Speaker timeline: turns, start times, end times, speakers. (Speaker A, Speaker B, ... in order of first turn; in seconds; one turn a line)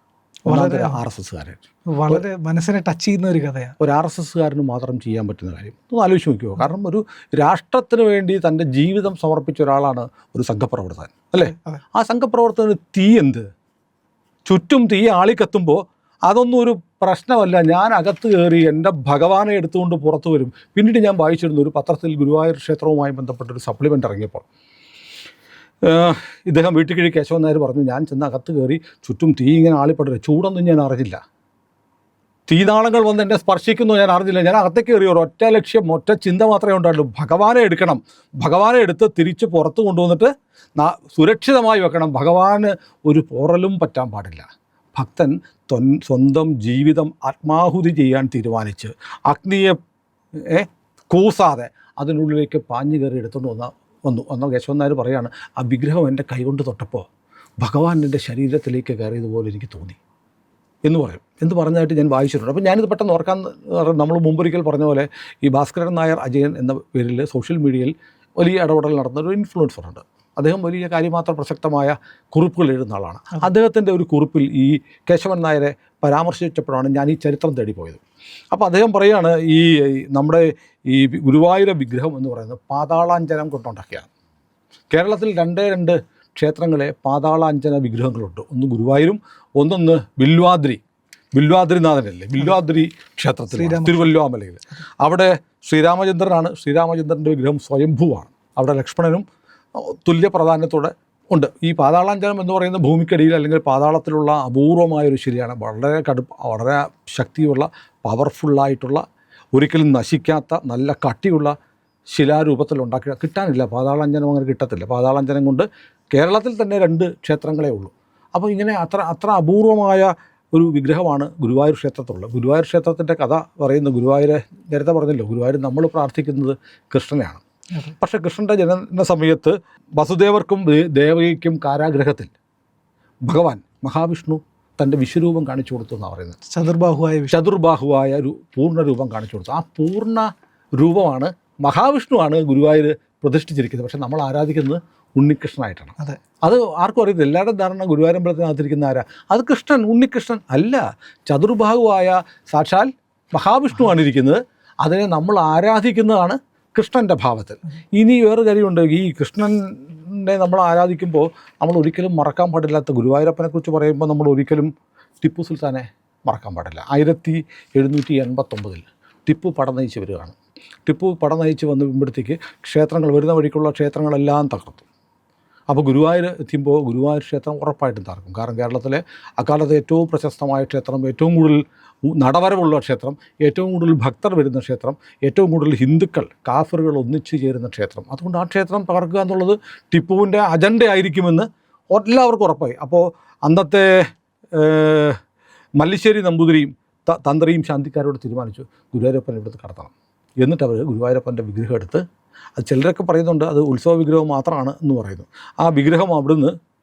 Speaker A: 0.5-1.0
Speaker B: 0.5-2.2
Speaker A: 1.9-3.8
Speaker B: 3.8-13.5
Speaker A: 11.5-11.8
Speaker B: 14.5-24.4
Speaker B: 25.8-31.2
Speaker B: 32.5-49.8
Speaker B: 50.5-57.1
Speaker B: 57.6-60.0
Speaker B: 60.9-78.0
Speaker B: 78.5-84.1
Speaker B: 84.9-90.8
Speaker B: 91.3-99.2
Speaker A: 93.5-94.2
Speaker B: 99.8-109.0
Speaker B: 109.5-111.5
Speaker B: 112.1-127.4
Speaker B: 128.0-132.3
Speaker B: 133.3-136.4
Speaker A: 136.5-137.4
Speaker B: 137.3-164.7
Speaker B: 165.2-174.9
Speaker B: 175.7-195.2
Speaker B: 195.8-202.0
Speaker B: 202.6-206.5